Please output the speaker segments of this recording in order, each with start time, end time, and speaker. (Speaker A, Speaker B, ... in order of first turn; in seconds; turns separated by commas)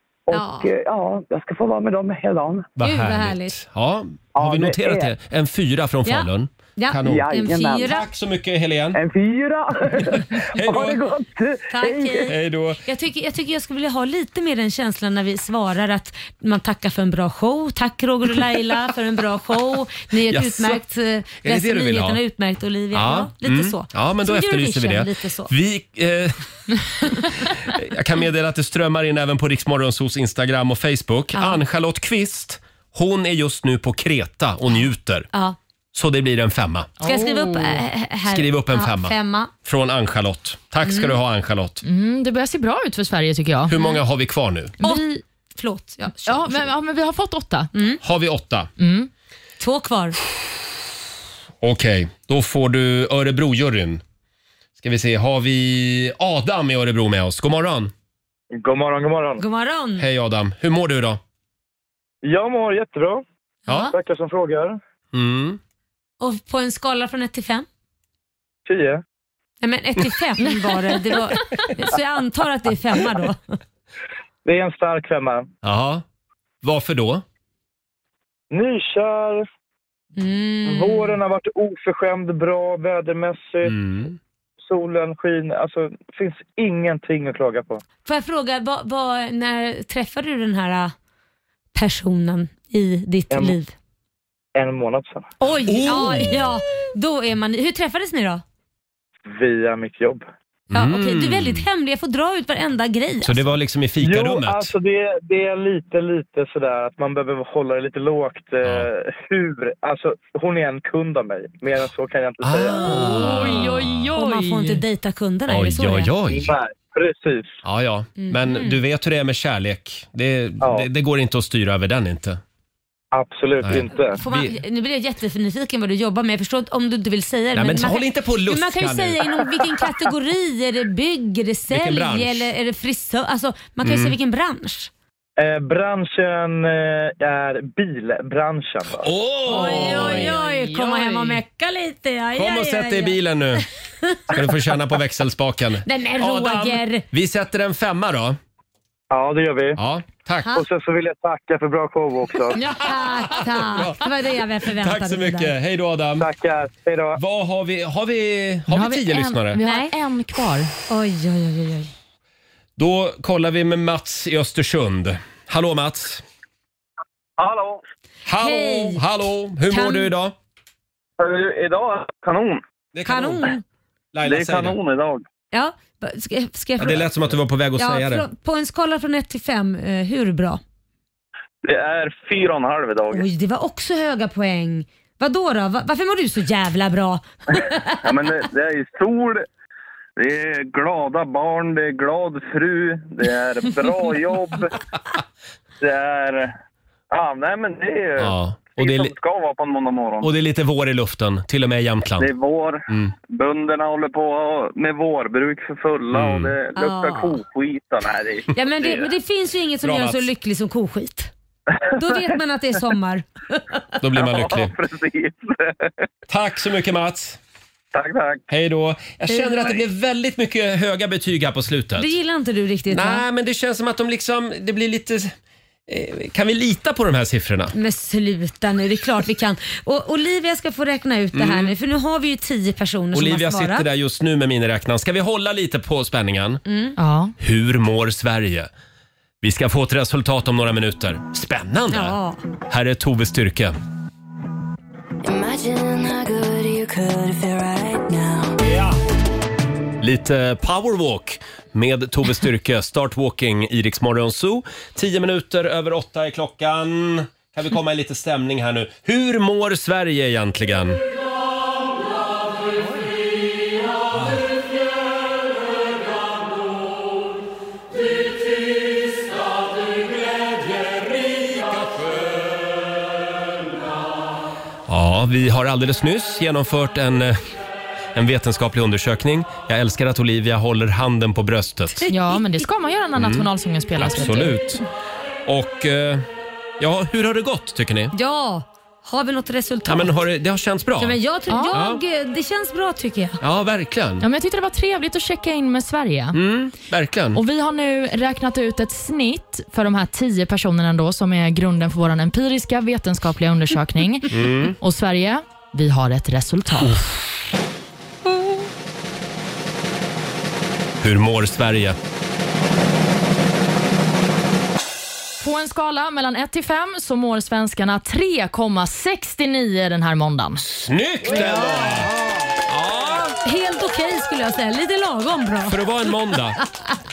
Speaker A: 0.3-2.7, Speaker B: 0.3-0.7, Speaker C: 2.8-7.3, Speaker B: 2.8-3.5, Speaker A: 4.3-5.1, Speaker B: 6.0-8.1, Speaker A: 7.0-8.0, Speaker C: 7.8-9.0, Speaker A: 8.9-12.3, Speaker C: 10.5-11.0, Speaker B: 11.7-25.5, Speaker C: 12.3-12.8, Speaker C: 20.3-20.8, Speaker C: 21.4-22.2, Speaker C: 22.9-26.4, Speaker C: 27.0-35.3, Speaker C: 35.9-36.9, Speaker D: 37.0-37.8, Speaker B: 37.0-39.5, Speaker C: 38.3-41.8, Speaker B: 40.9-41.1, Speaker D: 41.8-43.7, Speaker C: 43.7-44.7, Speaker D: 44.8-45.2, Speaker B: 44.8-46.7, Speaker D: 46.2-47.7, Speaker B: 47.7-48.0, Speaker C: 48.0-48.7, Speaker D: 48.8-49.1, Speaker B: 49.6-50.2, Speaker C: 51.6-54.0, Speaker C: 54.8-57.9, Speaker E: 58.5-59.4, Speaker B: 59.4-60.0, Speaker C: 60.0-61.2, Speaker E: 62.2-63.2, Speaker C: 63.7-63.9, Speaker B: 63.7-63.9, Speaker E: 63.9-64.8, Speaker C: 65.1-65.6, Speaker B: 66.2-67.7, Speaker E: 68.7-69.0, Speaker B: 69.6-73.6, Speaker E: 74.4-75.5, Speaker C: 75.6-76.0, Speaker C: 76.6-77.2, Speaker E: 78.5-79.4, Speaker B: 80.2-81.2, Speaker E: 80.6-83.8, Speaker C: 83.6-84.2, Speaker E: 84.6-87.8, Speaker B: 88.0-90.9, Speaker B: 91.7-93.7, Speaker E: 93.3-93.6, Speaker E: 94.5-95.3, Speaker B: 95.4-98.4, Speaker C: 95.7-96.5, Speaker E: 99.3-100.2, Speaker C: 100.7-101.7, Speaker B: 100.7-103.5, Speaker C: 103.2-104.7, Speaker E: 104.0-112.9, Speaker C: 108.6-108.9, Speaker C: 112.4-114.1, Speaker D: 112.7-114.8, Speaker B: 112.8-116.1, Speaker C: 115.5-116.5, Speaker E: 116.3-117.5, Speaker C: 117.6-122.4, Speaker B: 118.2-118.8, Speaker E: 120.6-120.9, Speaker E: 123.1-124.2, Speaker C: 123.6-124.5, Speaker B: 124.0-134.9, Speaker C: 127.5-129.4, Speaker C: 131.7-132.5, Speaker C: 133.8-134.1, Speaker E: 135.4-139.1, Speaker C: 139.0-140.4, Speaker B: 139.5-143.2, Speaker D: 139.5-141.4, Speaker C: 142.4-143.6, Speaker B: 144.0-144.3, Speaker C: 144.3-148.4, Speaker B: 145.8-147.0, Speaker E: 149.1-149.8, Speaker C: 149.8-150.6, Speaker E: 150.5-152.6, Speaker B: 152.6-155.5, Speaker C: 153.3-154.1, Speaker C: 154.7-156.3, Speaker E: 156.2-157.2, Speaker C: 157.2-159.6, Speaker D: 158.7-160.7, Speaker B: 159.6-159.9, Speaker B: 160.9-161.9, Speaker C: 162.8-166.2, Speaker C: 168.2-170.3, Speaker B: 168.4-169.0, Speaker B: 169.7-170.1, Speaker F: 171.6-172.6, Speaker C: 172.9-173.5, Speaker B: 173.1-173.6, Speaker C: 174.1-174.8, Speaker F: 174.3-175.2, Speaker B: 175.5-177.1, Speaker C: 176.8-178.2, Speaker B: 177.8-180.6, Speaker F: 181.6-183.2, Speaker B: 183.1-187.9, Speaker F: 188.1-189.4, Speaker F: 190.2-194.6, Speaker F: 195.8-196.5, Speaker F: 197.1-198.2, Speaker C: 198.2-199.1, Speaker F: 198.8-200.3, Speaker C: 200.2-202.3, Speaker F: 202.2-208.4, Speaker C: 202.9-203.1, Speaker C: 206.1-206.6, Speaker B: 206.8-207.4, Speaker B: 208.5-211.3, Speaker C: 209.8-210.3, Speaker B: 211.9-213.8, Speaker C: 214.0-214.8, Speaker F: 214.8-215.3, Speaker C: 216.3-217.4, Speaker F: 218.0-218.4, Speaker C: 218.5-222.1, Speaker B: 219.3-219.8, Speaker B: 222.0-223.2, Speaker C: 222.9-225.3, Speaker C: 225.9-227.7, Speaker B: 227.7-233.8, Speaker C: 231.3-231.7, Speaker C: 233.1-236.6, Speaker B: 236.7-236.9, Speaker D: 237.0-237.3, Speaker C: 237.4-238.7, Speaker C: 239.4-242.2, Speaker B: 241.9-242.4, Speaker C: 242.7-243.7, Speaker G: 245.2-248.6, Speaker C: 248.6-249.0, Speaker C: 250.0-261.0, Speaker C: 264.1-264.4, Speaker C: 274.9-277.4, Speaker C: 278.1-282.0, Speaker B: 282.0-282.4, Speaker D: 282.1-284.6, Speaker C: 283.2-284.8, Speaker C: 285.4-286.2, Speaker C: 286.8-288.1, Speaker B: 288.1-290.1, Speaker C: 289.9-291.2, Speaker B: 291.0-293.4, Speaker D: 291.5-291.8, Speaker C: 291.7-292.0, Speaker C: 293.4-294.2, Speaker D: 294.2-296.4, Speaker C: 296.3-297.4, Speaker D: 297.3-307.0, Speaker C: 304.3-304.8, Speaker C: 311.0-312.0, Speaker D: 315.4-320.6, Speaker C: 320.6-322.1, Speaker C: 322.6-323.3, Speaker B: 323.4-325.8, Speaker C: 325.7-326.6